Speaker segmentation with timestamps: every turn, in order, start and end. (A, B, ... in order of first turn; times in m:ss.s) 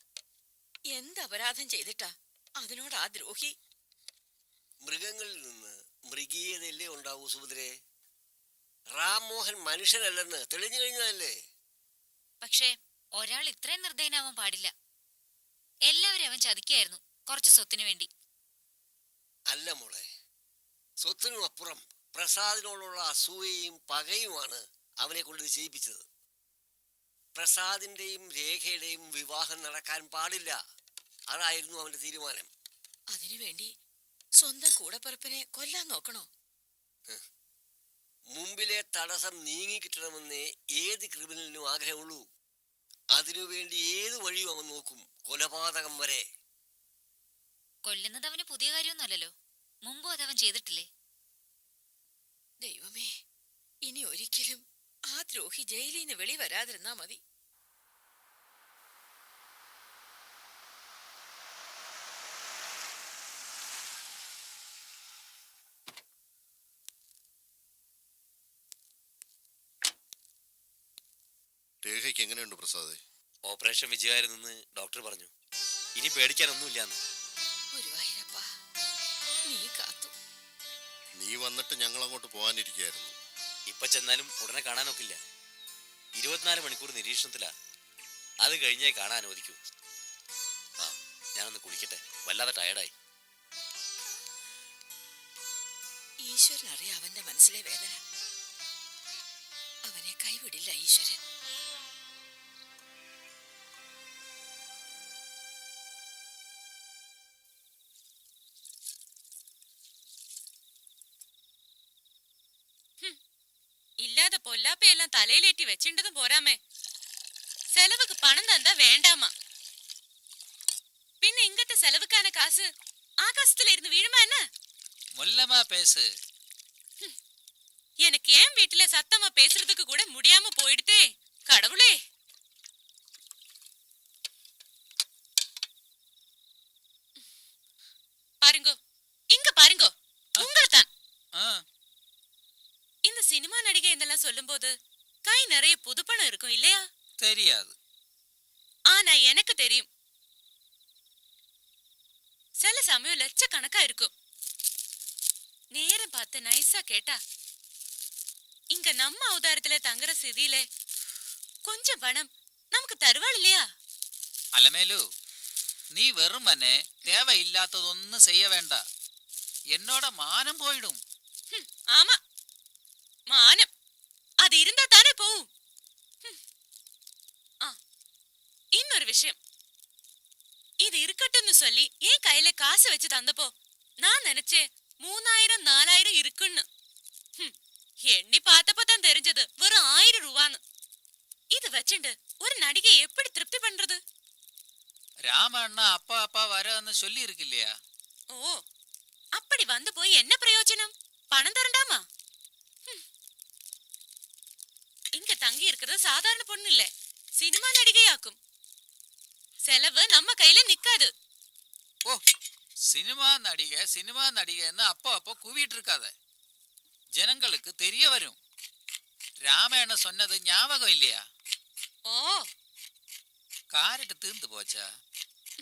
0:00.9-0:03.5 A
0:04.8-0:07.7 B
0:08.9-0:11.3 B
0:12.4-0:14.7 C
0:15.8-0:18.1 C
0:19.5-0:20.0 B
0:21.0-0:26.0 B
0:27.3-0:30.6 B
0:31.3-0:32.5 B
0:33.1-0:33.7 A
0:34.4-0:36.3 A
0:38.3-0:42.3 B
0:43.2-0:46.2 B
0:47.8-0:49.3 C
0:49.8-0:50.9 C
0:52.6-0:53.1 A
0:53.8-0:57.2 A
1:11.8-1:13.0 D
1:13.4-1:15.3 E
1:16.0-1:17.0 E
1:17.7-1:18.4 A
1:19.4-1:20.1 A
1:21.2-1:23.1 D
1:23.7-1:25.2 E
1:26.1-1:27.5 E
1:28.4-1:29.6 E
1:30.8-1:32.9 E
1:36.2-1:38.0 A
1:39.8-1:41.2 A
1:54.0-1:56.6 F
1:57.8-1:59.3 F
2:01.2-2:02.7 F
2:03.2-2:04.4 F
2:05.2-2:06.1 G
2:08.0-2:11.9 F
2:18.4-2:18.8 F
2:19.3-2:20.9 F
2:21.4-2:21.6 G
2:23.1-2:24.7 F
2:25.2-2:26.8 F
2:27.2-2:27.7 G
2:28.9-2:29.8 F
2:32.6-2:34.1 F
2:35.7-2:37.2 F
2:38.7-2:40.6 F
2:41.6-2:43.6 F
2:44.6-2:45.0 G
2:46.0-2:48.8 G
2:49.7-2:51.0 G
2:51.5-2:52.2 F
2:53.3-2:53.7 F
2:54.4-2:55.5 F
2:58.8-2:59.4 F
3:00.8-3:03.5 F
3:04.0-3:06.6 F
3:08.1-3:10.6 F
3:11.5-3:14.0 F
3:15.3-3:17.7 G
3:18.3-3:18.6 F
3:19.4-3:22.0 F
3:25.2-3:28.4 F
3:29.7-3:31.1 F
3:32.9-3:36.1 G
3:37.2-3:38.4 G
3:39.4-3:41.2 G
3:42.1-3:42.5 F
3:43.7-3:44.8 G